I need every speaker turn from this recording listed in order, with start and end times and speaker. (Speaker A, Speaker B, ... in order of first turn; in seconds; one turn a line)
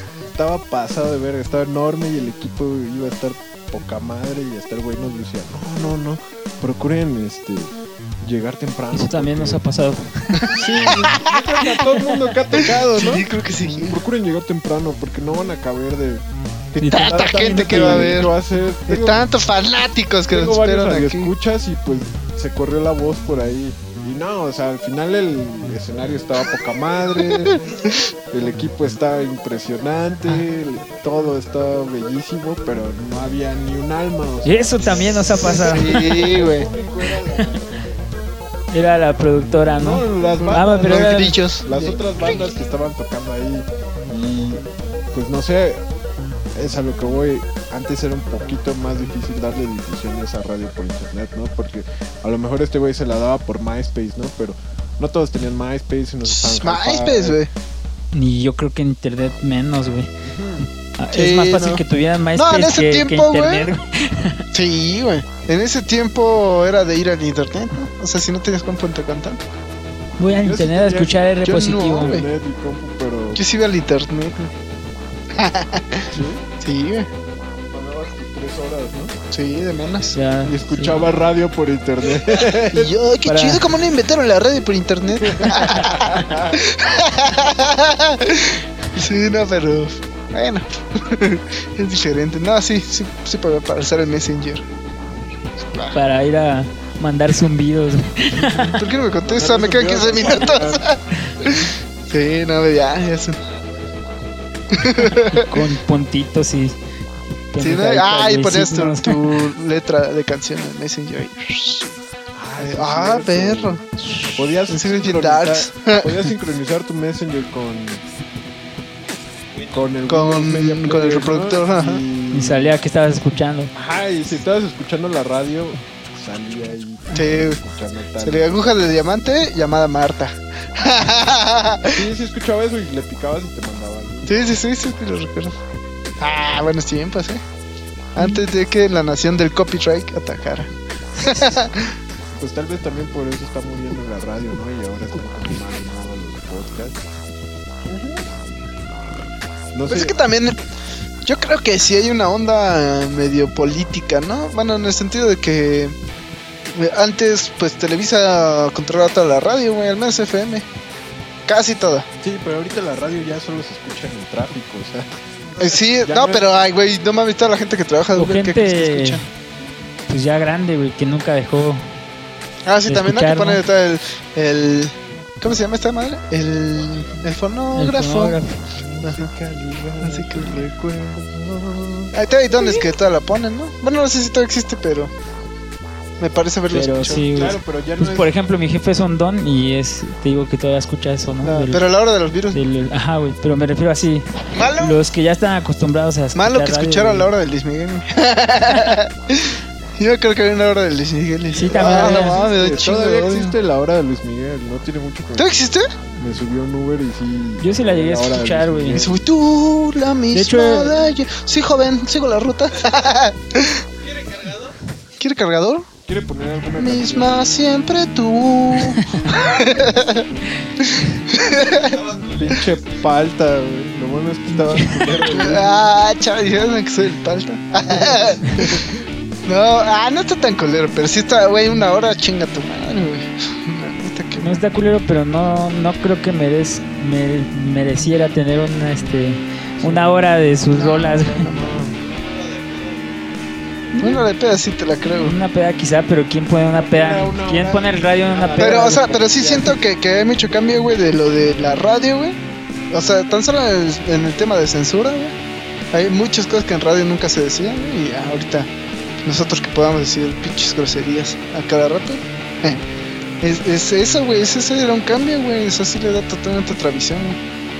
Speaker A: 0.3-9.6
Speaker B: 8.9-10.6
Speaker C: 10.4-11.8
Speaker A: 10.5-16.2
Speaker C: 12.5-14.0
Speaker C: 16.7-18.3
Speaker B: 16.8-18.2
Speaker A: 17.1-19.2
Speaker C: 18.9-21.3
Speaker A: 20.3-27.6
Speaker C: 27.2-27.9
Speaker A: 28.3-37.6
Speaker B: 34.4-36.3
Speaker C: 34.9-36.7
Speaker B: 38.7-41.4
Speaker A: 39.8-45.8
Speaker C: 40.4-42.4
Speaker A: 46.5-57.4
Speaker C: 56.2-57.5
Speaker B: 58.1-60.1
Speaker A: 60.2-60.7
Speaker B: 61.0-64.4
Speaker C: 61.1-61.8
Speaker C: 62.4-63.7
Speaker C: 64.5-69.4
Speaker B: 70.2-72.2
Speaker A: 70.3-73.4
Speaker C: 71.5-72.3
Speaker C: 73.3-74.5
Speaker C: 75.3-77.1
Speaker A: 76.1-76.4
Speaker A: 77.7-79.2
Speaker C: 79.3-80.2
Speaker B: 80.1-81.1
Speaker A: 80.4-83.0
Speaker C: 82.7-94.6
Speaker B: 83.2-83.6
Speaker A: 85.2-86.6
Speaker C: 95.7-96.0
Speaker B: 95.9-98.8
Speaker C: 98.5-103.4
Speaker A: 99.2-100.9
Speaker C: 104.7-105.5
Speaker B: 105.3-106.8
Speaker B: 107.5-109.4
Speaker C: 107.6-111.9
Speaker A: 112.3-113.8
Speaker C: 112.6-113.8
Speaker A: 114.3-118.0
Speaker C: 114.7-116.2
Speaker A: 119.7-122.8
Speaker C: 120.1-122.0
Speaker B: 122.3-123.7
Speaker A: 123.7-128.7
Speaker C: 127.1-127.6
Speaker C: 128.2-132.1
Speaker A: 131.9-134.3
Speaker C: 134.2-135.5
Speaker C: 136.2-137.4
Speaker C: 138.2-141.9
Speaker A: 142.3-147.0
Speaker A: 149.7-150.2
Speaker C: 149.9-150.6
Speaker C: 151.2-155.9
Speaker C: 156.7-160.7
Speaker C: 161.5-162.1
Speaker A: 162.2-165.1
Speaker C: 165.6-169.2
Speaker A: 166.0-166.4
Speaker B: 168.1-169.2
Speaker B: 170.1-171.9
Speaker C: 172.7-178.4
Speaker B: 172.9-173.6
Speaker B: 177.7-178.7
Speaker A: 178.8-182.8
Speaker C: 179.0-179.3
Speaker C: 180.0-180.7
Speaker C: 182.1-185.1
Speaker C: 186.2-187.5
Speaker B: 186.7-191.8
Speaker A: 187.3-188.3
Speaker C: 191.4-192.6
Speaker B: 192.5-197.3
Speaker C: 194.5-195.0
Speaker C: 196.3-203.5
Speaker B: 201.5-202.4
Speaker A: 201.6-205.6
Speaker C: 205.3-205.9
Speaker A: 206.1-209.3
Speaker B: 207.6-209.0
Speaker C: 209.0-213.8
Speaker B: 210.3-211.0
Speaker D: 214.0-214.8
Speaker C: 215.2-215.9
Speaker A: 216.1-217.5
Speaker C: 216.7-220.3
Speaker B: 218.9-219.3
Speaker C: 220.8-222.0
Speaker D: 221.6-222.6
Speaker A: 222.3-225.9
Speaker B: 224.5-225.0
Speaker C: 225.2-228.8
Speaker A: 227.9-228.9
Speaker C: 229.5-234.6
Speaker B: 234.4-241.5
Speaker A: 239.8-240.2
Speaker C: 240.7-241.7
Speaker A: 241.5-242.0
Speaker D: 242.1-243.2
Speaker C: 244.0-245.3
Speaker B: 244.0-244.2
Speaker B: 245.2-249.4
Speaker A: 246.7-249.8
Speaker C: 248.6-252.3
Speaker C: 252.9-255.3
Speaker C: 255.9-258.7
Speaker C: 259.2-262.8
Speaker C: 263.4-267.4